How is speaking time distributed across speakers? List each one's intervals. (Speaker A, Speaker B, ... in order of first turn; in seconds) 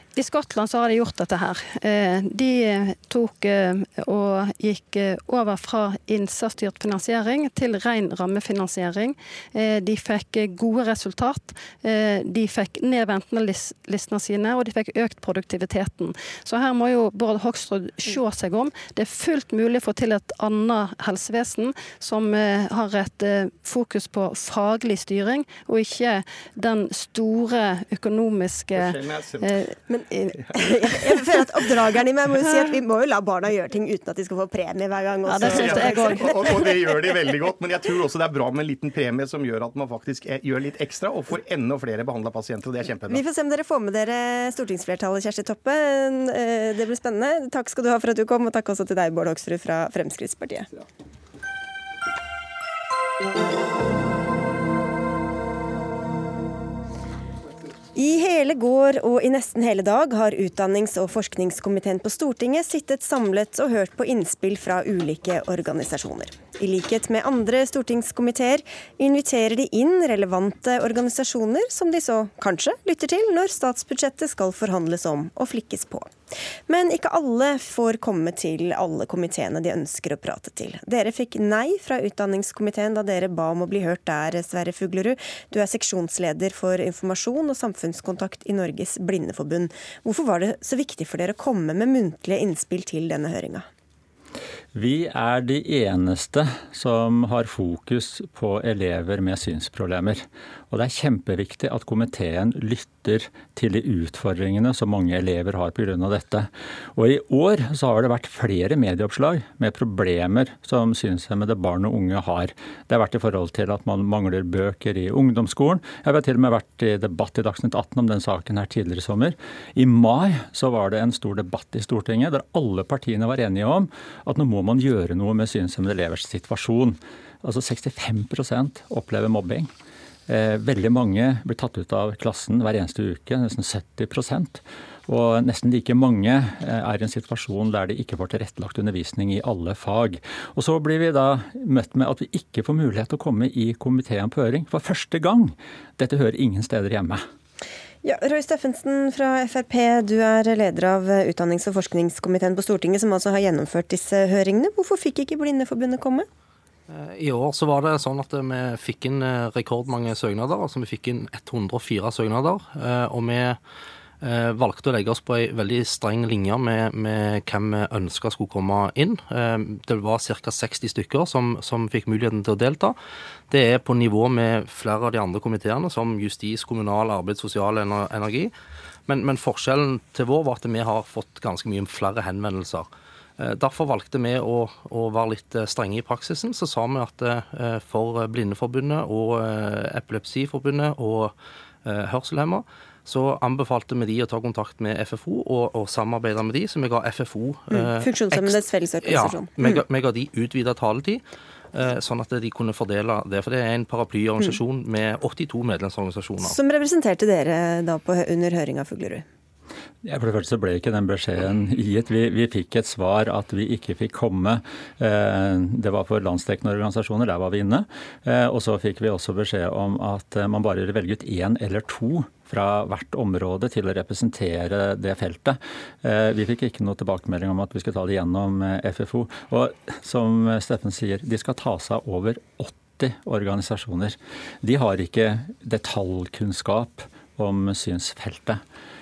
Speaker A: 0.1-29.7, 35.3-36.6
Speaker B: 28.7-29.6, 35.4-43.2
Speaker C: 29.9-36.8, 43.1-50.7, 57.9-76.1, 76.7-93.7, 148.0-156.2, 197.7-199.8, 206.4-209.2
Speaker D: 94.7-129.7, 130.3-147.2, 210.0-238.6
Speaker E: 156.9-163.6, 164.2-172.9, 173.5-178.5, 179.1-182.9, 183.4-201.2, 201.7-206.6